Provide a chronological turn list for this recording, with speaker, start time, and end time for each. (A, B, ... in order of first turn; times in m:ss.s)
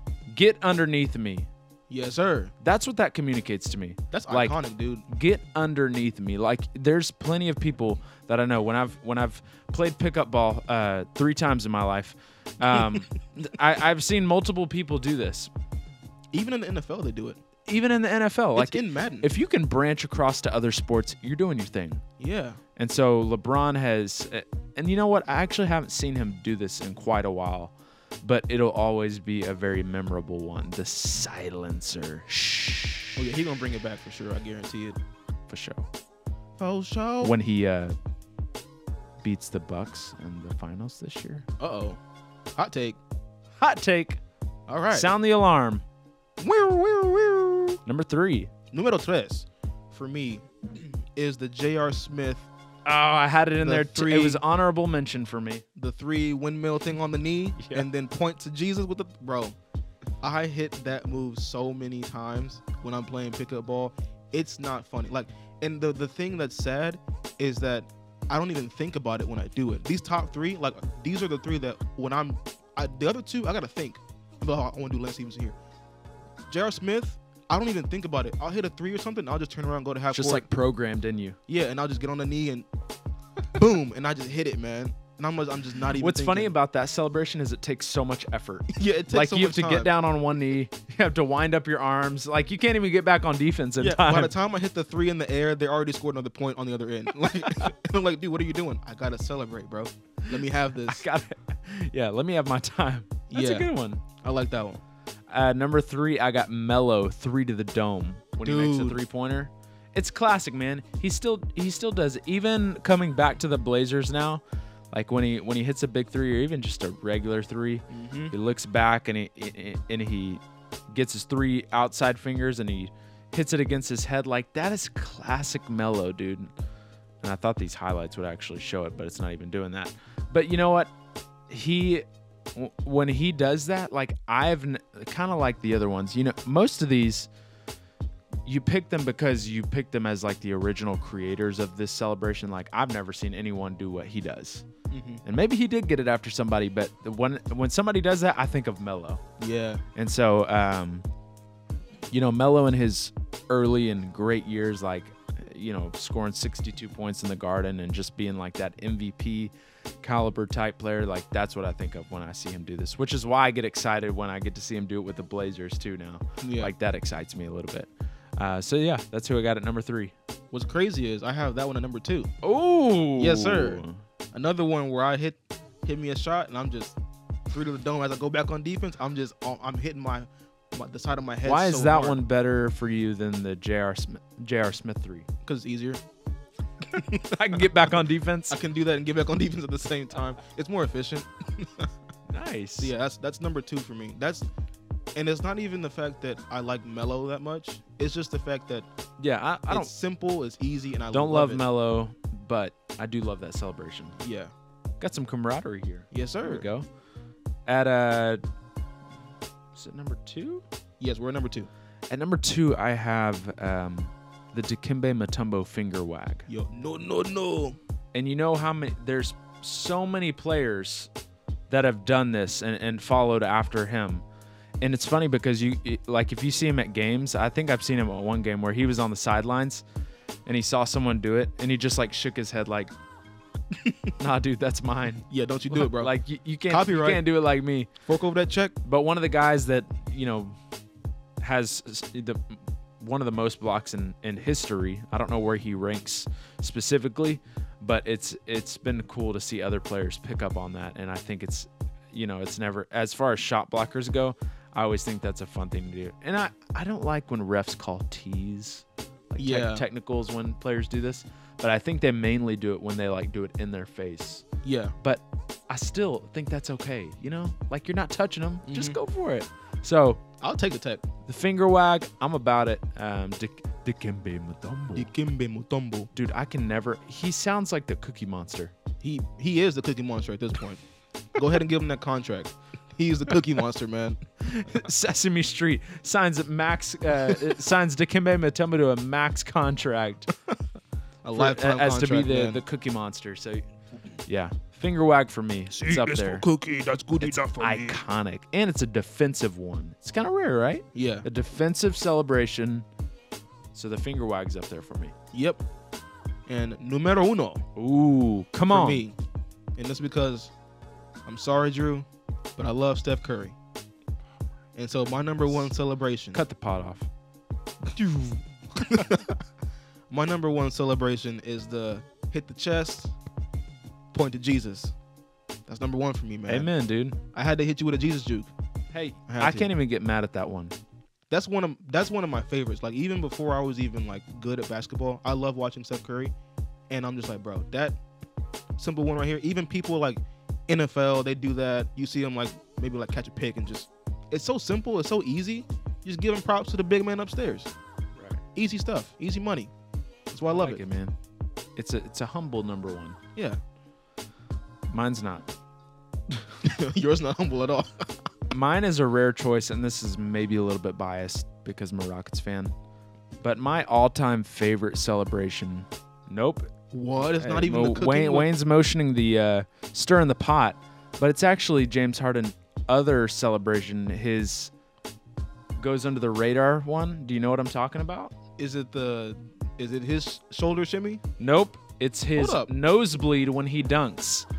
0:00.3-0:01.5 A
0:01.9-0:02.5 B
0:02.6-0:15.5 A
0:04.1-0:05.1 B
0:16.3-0:17.4 B
0:17.7-0:22.0 A
0:18.6-0:19.3 B
0:22.2-0:22.6 B
0:22.8-0:33.2 A
0:33.2-0:35.0 B
0:35.5-0:35.9 A
0:36.6-0:37.3 B
0:37.2-0:38.0 A
0:39.2-0:41.5 A
0:41.6-0:42.0 B
0:42.6-0:43.0 B
0:43.6-0:44.2 A
0:44.7-0:45.1 B
0:44.9-0:45.8 A
0:46.4-0:47.8 B
0:47.9-0:48.5 A
0:48.7-0:52.5 B
0:52.8-0:55.6 A
0:53.6-0:54.4 B
0:55.8-0:59.6 B
0:57.6-0:57.9 A
1:00.2-1:15.6 B
1:16.5-1:20.5 B
1:20.1-1:21.4 A
1:21.5-1:22.7 B
1:23.6-1:26.5 B
1:26.0-1:34.3 A
1:28.7-1:29.9 B
1:33.8-1:41.0 B
1:37.4-1:37.7 A
1:40.3-1:44.0 A
1:43.3-1:43.7 B
1:44.2-1:44.8 B
1:45.3-2:06.5 A
1:48.4-1:49.0 B
1:57.9-1:58.3 B
2:07.2-2:10.9 A
2:11.5-2:17.3 A
2:18.4-2:24.6 A
2:24.9-2:25.2 B
2:25.2-2:29.2 A
2:29.4-2:29.8 B
2:30.0-2:31.1 A
2:32.1-2:50.1 A
2:46.4-2:46.7 B
2:50.5-2:52.3 B
2:52.4-2:54.0 A
2:53.2-2:57.0 B
2:57.5-3:02.2 B
3:01.4-3:05.3 A
3:05.4-3:06.0 B
3:06.9-3:08.0 B
3:07.3-3:08.6 A
3:08.5-3:11.9 B
3:12.3-3:12.9 A
3:12.8-3:14.5 B
3:15.2-3:18.9 B
3:19.2-3:19.9 A
3:19.7-3:21.6 B
3:21.1-3:24.2 A
3:24.2-3:24.5 B
3:25.0-3:26.9 A
3:26.1-3:26.7 B
3:27.7-3:28.4 A
3:29.8-3:30.6 A
3:31.0-3:31.7 B
3:32.1-3:36.5 A
3:36.5-3:37.8 B
3:38.1-3:41.1 A
3:41.7-3:44.2 A
3:44.8-3:49.8 A
3:50.5-3:52.9 A
3:54.2-3:57.9 A
3:55.3-3:56.1 B
3:56.7-3:57.3 B
3:58.1-3:58.7 B
3:58.8-4:00.6 A
4:01.4-4:24.5 A
4:19.4-4:19.8 B
4:24.6-4:25.0 B
4:25.0-4:30.2 A
4:28.7-4:29.0 B
4:30.4-4:31.0 B
4:31.3-4:35.1 A
4:35.0-4:36.1 B
4:36.1-4:38.7 A
4:39.0-4:40.8 B
4:41.4-4:44.2 B
4:44.4-4:50.3 A
4:51.2-4:52.6 B
4:51.3-4:53.6 A
4:54.3-4:56.4 A
4:55.7-4:58.0 B
4:57.2-5:02.9 A
5:00.9-5:01.2 B
5:03.7-5:05.1 A
5:05.3-5:05.6 B
5:06.5-5:07.6 B
5:07.8-5:09.0 A
5:08.7-5:09.2 B
5:09.8-5:10.5 B
5:11.3-5:13.6 B
5:14.8-5:16.4 B
5:16.3-5:17.1 A
5:17.9-5:19.4 B
5:20.1-5:23.1 B
5:24.1-5:25.0 B
5:25.7-5:26.7 B
5:26.5-5:27.2 A
5:27.3-5:28.5 B
5:28.9-5:30.8 A
5:29.3-5:29.7 B
5:31.3-5:36.3 B
5:36.9-5:38.0 B
5:38.8-5:47.7 B
5:48.6-5:49.7 B
5:50.3-5:50.8 B
5:50.5-5:51.1 A
5:51.8-5:53.2 A
5:54.9-5:55.5 A
5:56.6-5:58.1 B
5:58.5-6:02.7 A
6:03.4-6:06.7 A
6:06.9-6:08.5 B
6:07.3-6:14.7 A
6:15.8-6:18.3 A
6:18.6-6:21.2 B
6:21.4-6:24.5 A
6:22.4-6:22.7 B